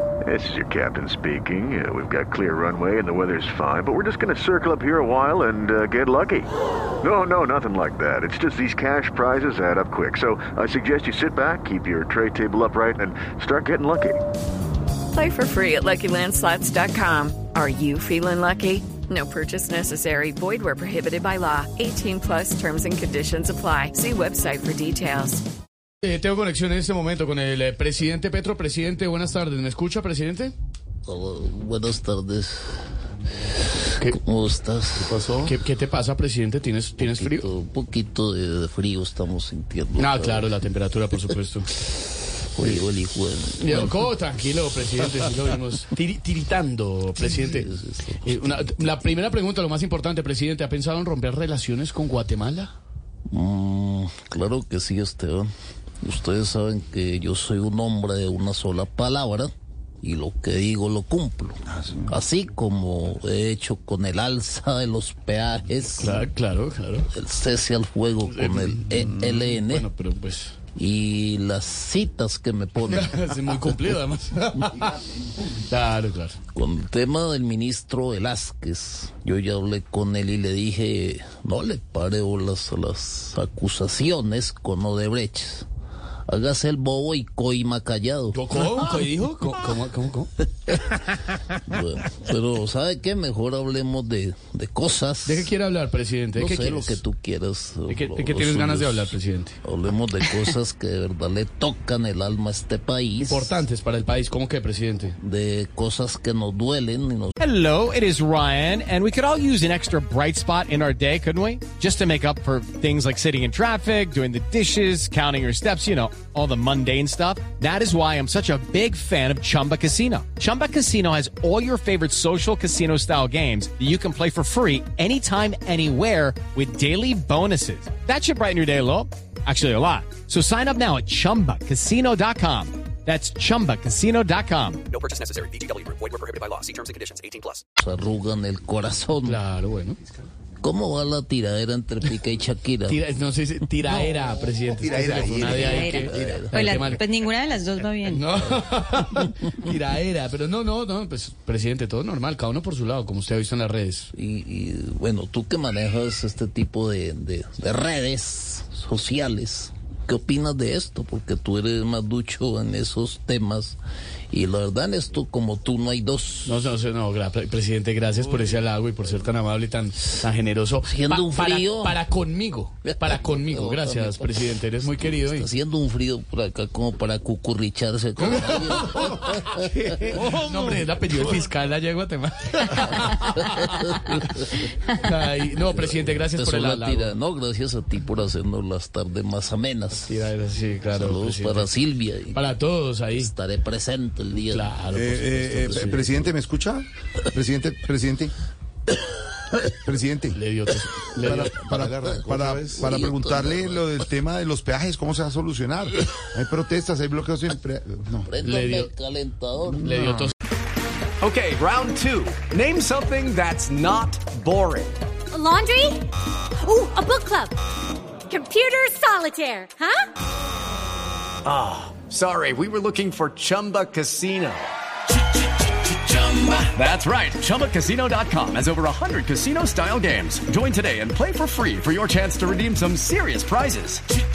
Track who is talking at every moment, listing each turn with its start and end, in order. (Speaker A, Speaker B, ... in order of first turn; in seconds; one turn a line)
Speaker A: 0.2-6.5
Speaker A: 7.0-14.2
Speaker B: 15.1-25.4
Speaker C: 26.0-30.6
Speaker D: 31.1-32.8
Speaker D: 33.7-35.2
Speaker C: 35.4-37.5
Speaker D: 37.0-40.5
Speaker C: 40.0-41.8
Speaker D: 42.5-44.1
Speaker C: 43.6-47.7
Speaker D: 47.2-48.9
Speaker C: 48.2-52.7
Speaker D: 53.3-55.5
Speaker D: 56.0-59.5
Speaker D: 60.0-66.3
Speaker C: 66.1-67.1
Speaker D: 67.1-69.9
Speaker C: 68.3-70.6
Speaker D: 70.8-73.2
Speaker C: 73.1-75.0
Speaker C: 75.7-76.4
Speaker D: 76.5-85.7
Speaker D: 86.3-88.8
Speaker C: 88.3-90.3
Speaker D: 90.7-91.0
Speaker D: 91.7-95.5
Speaker C: 95.3-97.0
Speaker D: 96.3-103.6
Speaker C: 97.9-99.6
Speaker C: 103.2-105.2
Speaker D: 105.2-107.3
Speaker E: 107.4-134.8
Speaker F: 134.9-137.6
Speaker D: 137.8-139.4
Speaker C: 139.3-140.0
Speaker D: 140.6-143.0
Speaker C: 142.9-146.1
Speaker G: 143.9-146.5
Speaker H: 144.9-148.6
Speaker D: 145.6-147.0
Speaker C: 146.7-147.0
Speaker C: 148.1-154.1
Speaker D: 154.2-163.8
Speaker D: 164.3-166.6
Speaker C: 166.5-175.5
Speaker D: 170.8-172.0
Speaker D: 172.8-180.2
Speaker C: 180.2-183.7
Speaker D: 183.0-184.6
Speaker C: 185.0-187.1
Speaker D: 185.5-190.3
Speaker C: 190.1-191.7
Speaker D: 190.9-192.5
Speaker C: 192.3-193.3
Speaker D: 193.1-194.8
Speaker C: 194.5-196.1
Speaker G: 194.9-198.3
Speaker G: 199.7-200.4
Speaker C: 200.3-201.8
Speaker G: 201.1-208.2
Speaker D: 201.8-203.9
Speaker D: 208.1-210.1
Speaker C: 208.4-208.9
Speaker C: 209.8-210.3
Speaker I: 211.2-215.0
Speaker J: 215.4-216.0
Speaker J: 216.7-217.5
Speaker J: 218.3-219.9
Speaker I: 221.4-224.7
Speaker I: 226.0-234.0